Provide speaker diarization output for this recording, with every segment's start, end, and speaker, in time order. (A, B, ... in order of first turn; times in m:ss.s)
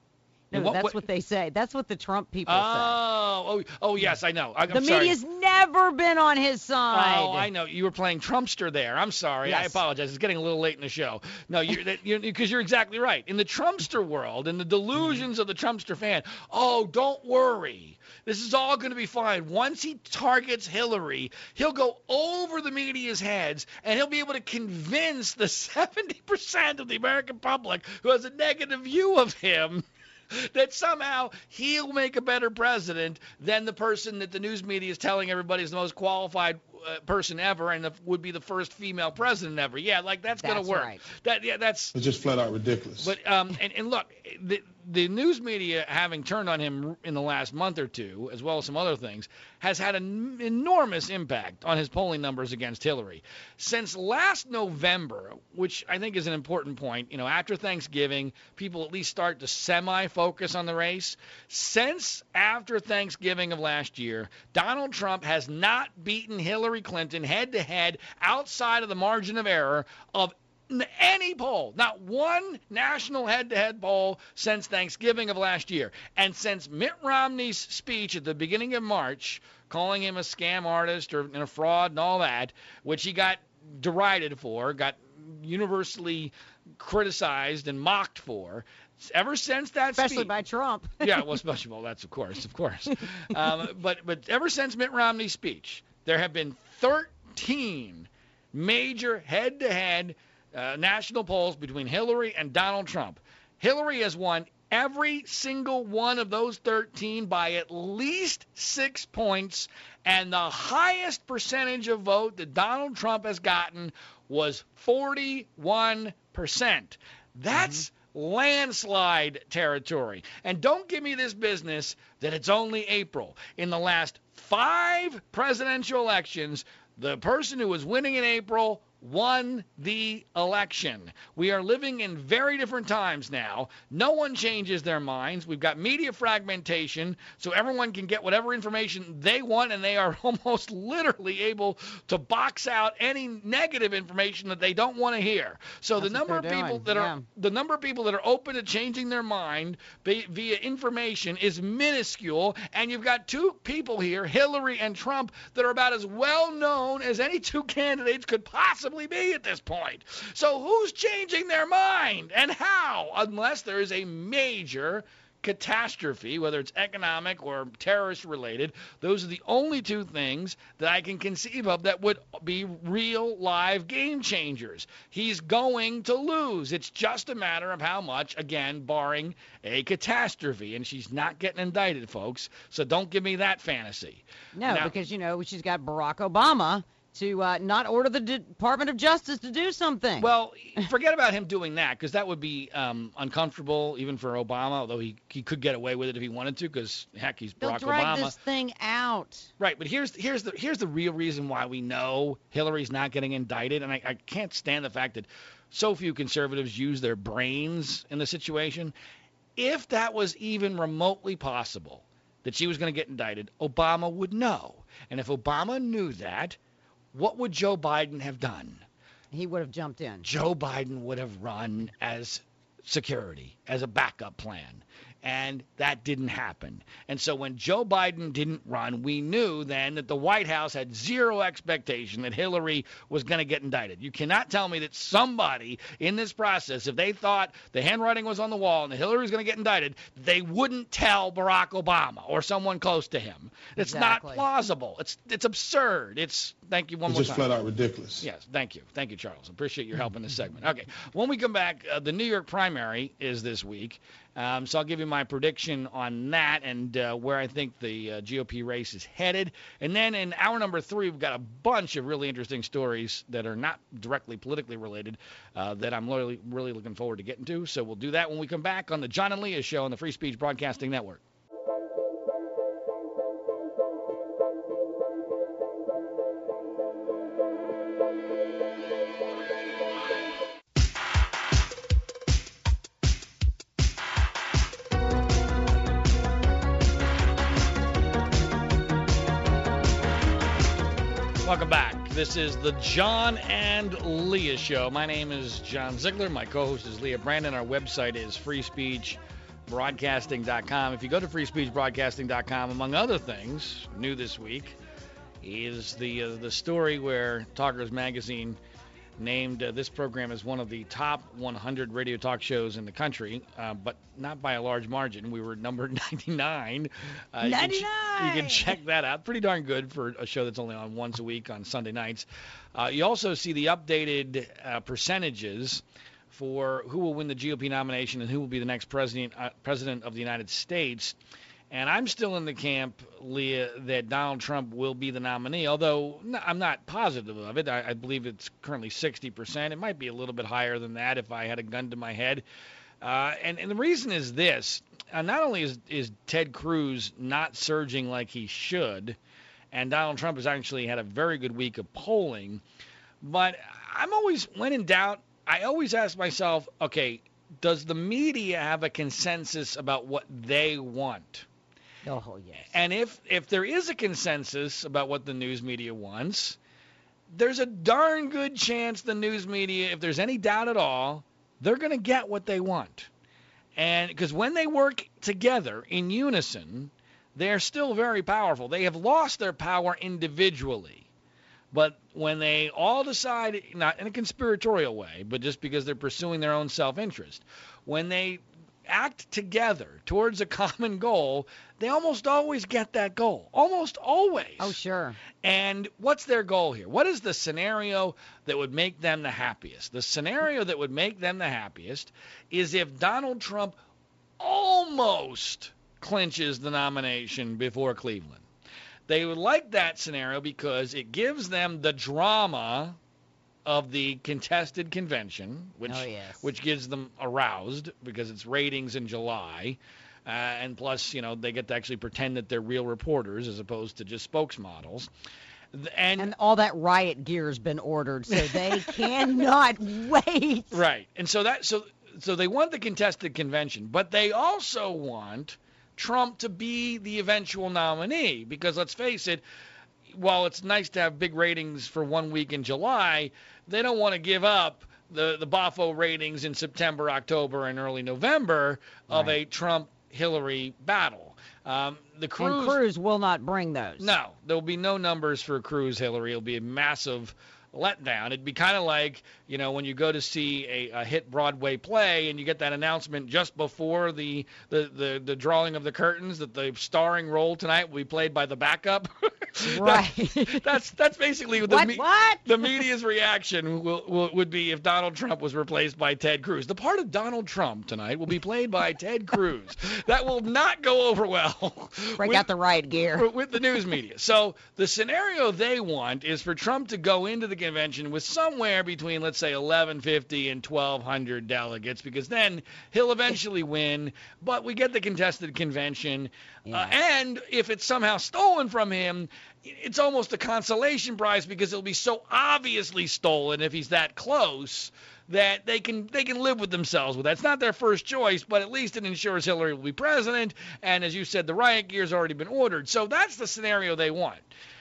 0:00.5-0:03.0 A
0:00.5-0:01.0 B
0:02.5-0:05.2 B
0:04.7-0:07.5 A
0:06.9-0:41.9 B
0:09.4-0:09.8 A
0:40.4-0:41.0 A
0:41.9-0:43.1 C
0:43.0-1:30.3 B
1:30.0-1:31.2 A
1:31.0-3:04.9 B
1:57.5-1:57.8 A
2:26.0-2:27.2 A
3:04.6-3:10.9 A
3:10.2-3:18.4 B
3:17.6-3:19.5 A
3:19.6-3:28.9 B
3:29.6-3:36.6 B
3:37.1-3:38.8 B
3:39.3-3:40.3 A
3:40.2-4:07.5 B
4:03.8-4:04.4 A
4:07.1-4:08.3 C
4:08.2-4:31.2 B
4:51.4-5:04.8 B
5:05.4-5:08.6 B
5:09.2-5:31.2 B
5:17.4-5:18.8 A
5:31.7-5:42.4 B
5:43.0-5:49.2 B
5:49.7-5:52.6 B
5:53.2-6:01.5 B
6:02.0-6:02.8 A
6:02.6-6:06.6 B
6:07.3-6:13.1 B
6:13.8-6:21.0 B
6:21.7-6:34.8 B
6:34.6-6:35.2 A
6:35.4-6:43.8 B
6:44.4-6:48.4 B
6:49.1-6:53.0 B
6:53.6-7:05.1 B
6:55.9-6:56.5 A
7:05.7-7:06.3 B
7:06.2-7:10.8 A
7:08.3-7:09.0 B
7:10.7-7:19.4 B
7:20.1-7:32.8 B
7:32.4-7:34.2 A
7:34.0-8:02.5 B
7:49.6-7:50.7 A
7:51.6-7:52.8 A
8:02.2-8:03.3 A
8:03.1-8:34.5 B
8:16.7-8:16.9 A